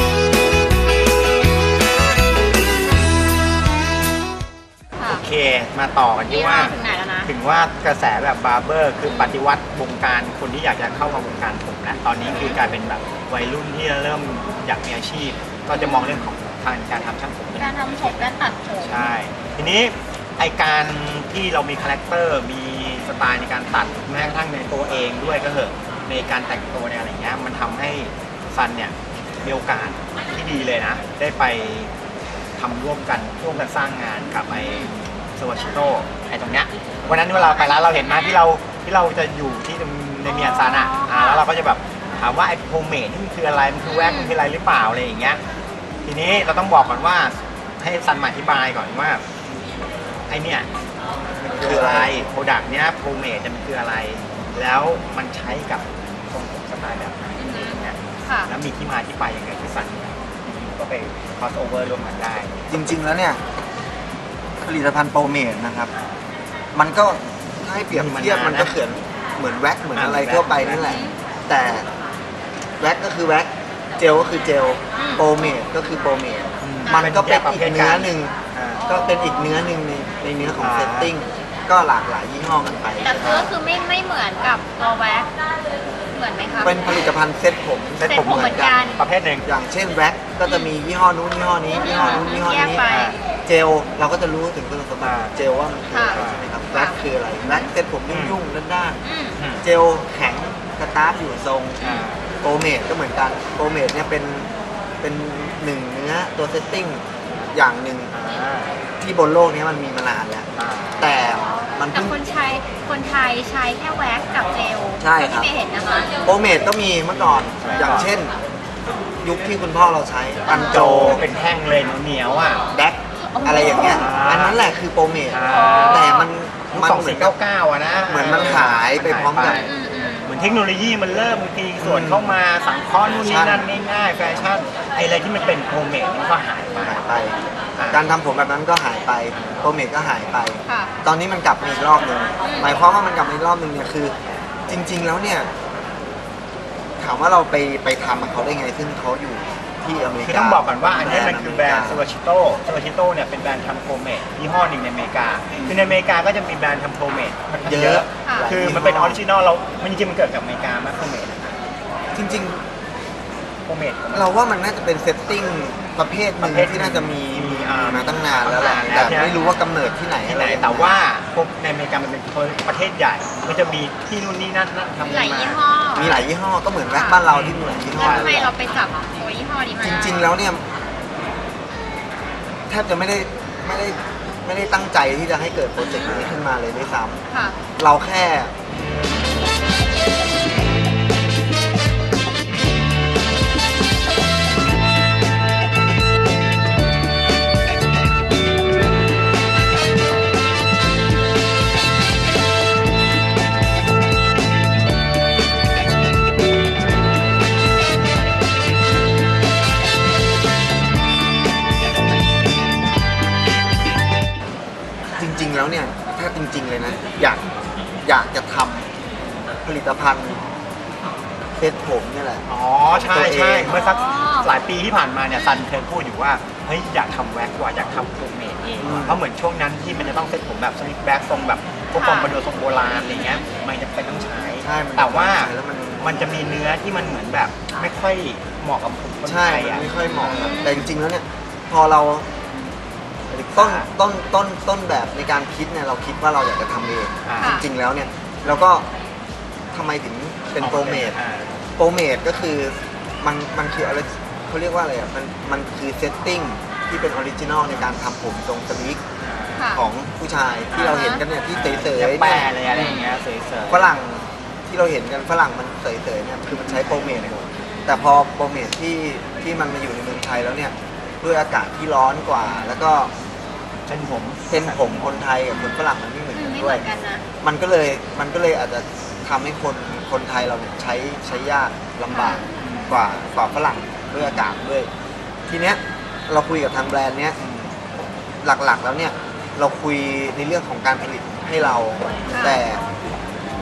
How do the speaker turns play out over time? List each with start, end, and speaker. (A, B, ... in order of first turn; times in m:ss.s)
0:05.1-0:31.9 A
0:06.3-0:07.3 B
0:09.0-0:09.3 B
0:12.3-0:12.6 B
0:15.7-0:16.3 B
0:17.6-0:19.1 B
0:32.6-0:45.4 A
0:34.5-0:35.0 B
0:37.3-0:38.4 B
0:40.3-0:41.5 B
0:43.9-0:44.4 B
0:46.0-0:49.2 A
0:50.3-0:50.7 A
0:51.4-1:02.8 A
0:51.6-0:52.2 C
0:57.4-0:58.5 B
1:02.7-1:03.4 C
1:04.6-1:05.9 C
1:06.7-1:11.9 C
1:07.9-1:08.8 A
1:09.9-1:10.9 A
1:10.8-1:11.2 B
1:12.8-1:23.5 C
1:15.0-1:15.3 B
1:16.6-1:18.8 A
1:18.8-1:19.7 B
1:20.6-1:21.1 A
1:23.0-1:25.3 B
1:23.2-1:23.5 A
1:26.1-1:26.9 B
1:26.6-1:28.9 C
1:28.0-1:29.0 B
1:28.0-1:29.5 A
1:29.4-1:32.8 C
1:30.4-1:30.7 B
1:31.8-1:33.2 B
1:32.0-1:32.3 A
1:32.9-1:33.2 A
1:33.4-1:39.0 C
1:35.0-1:35.3 A
1:35.9-1:36.2 B
1:36.1-1:36.5 A
1:36.7-1:37.7 B
1:38.1-1:38.4 A
1:39.0-1:39.4 B
1:39.4-1:39.7 A
1:39.6-1:44.5 C
1:41.8-1:42.2 A
1:45.0-1:48.1 C
1:48.1-1:48.8 A
1:49.0-1:50.5 C
1:50.6-1:51.2 A
1:51.0-1:52.2 C
1:51.9-1:56.1 B
1:55.0-1:55.5 C
1:56.2-1:58.3 C
1:57.1-1:58.1 A
1:59.2-2:01.2 C
2:00.5-2:00.9 B
2:00.7-2:02.6 A
2:02.7-2:07.4 C
2:03.2-2:04.1 B
2:03.6-2:04.6 A
2:05.3-2:06.1 A
2:05.4-2:06.3 B
2:06.7-2:09.7 A
2:08.1-2:09.6 C
2:09.4-2:10.3 B
2:10.3-2:17.0 A
2:11.8-2:12.4 C
2:13.2-2:13.7 C
2:14.2-2:14.5 C
2:16.8-2:17.4 C
2:17.7-2:18.0 A
2:17.9-2:24.2 C
2:19.3-2:19.6 A
2:20.7-2:20.9 B
2:22.4-2:22.7 B
2:24.7-2:25.5 C
2:27.0-2:32.1 C
2:30.2-2:41.6 A
2:37.6-2:39.2 C
2:38.2-2:38.5 B
2:42.1-2:42.6 C
2:43.7-2:44.4 A
2:44.1-2:51.0 C
2:46.4-2:49.4 A
2:48.5-2:48.8 B
2:50.2-2:56.3 A
2:55.0-2:56.2 B
2:56.0-2:58.5 C
2:56.9-2:57.2 B
2:57.3-2:58.4 A
2:57.9-3:00.3 B
2:59.8-3:00.7 C
3:02.7-3:07.2 C
3:05.8-3:06.3 B
3:07.3-3:07.6 B
3:07.8-3:08.5 C
3:35.2-3:37.5 C
3:38.0-3:38.9 C
3:39.6-3:40.4 C
3:41.6-3:43.8 C
3:42.5-4:00.9 A
3:43.7-3:44.5 B
3:48.8-3:49.2 C
3:52.0-3:52.4 B
3:53.1-3:53.4 B
3:54.6-3:57.2 C
3:59.2-4:02.3 C
4:00.2-4:00.9 B
4:03.3-4:08.9 C
4:03.6-4:03.9 A
4:07.2-4:07.6 A
4:09.7-4:11.2 C
4:10.6-4:11.6 A
4:11.8-4:19.0 C
4:19.2-4:19.7 A
4:19.6-4:19.9 B
4:19.7-4:23.0 C
4:20.7-4:23.9 A
4:20.8-4:21.2 B
4:22.7-4:23.2 B
4:23.7-4:33.1 C
4:26.7-4:27.4 A
4:27.7-4:28.1 B
4:32.4-4:32.9 A
4:33.9-4:35.8 A
4:34.5-4:36.9 C
4:36.3-4:37.2 B
4:37.4-4:44.9 C
4:42.1-4:42.5 B
4:42.6-4:42.9 A
4:44.2-4:44.5 A
4:45.5-4:47.4 C
4:47.4-4:47.7 A
4:48.4-4:52.8 C
4:52.3-4:52.6 B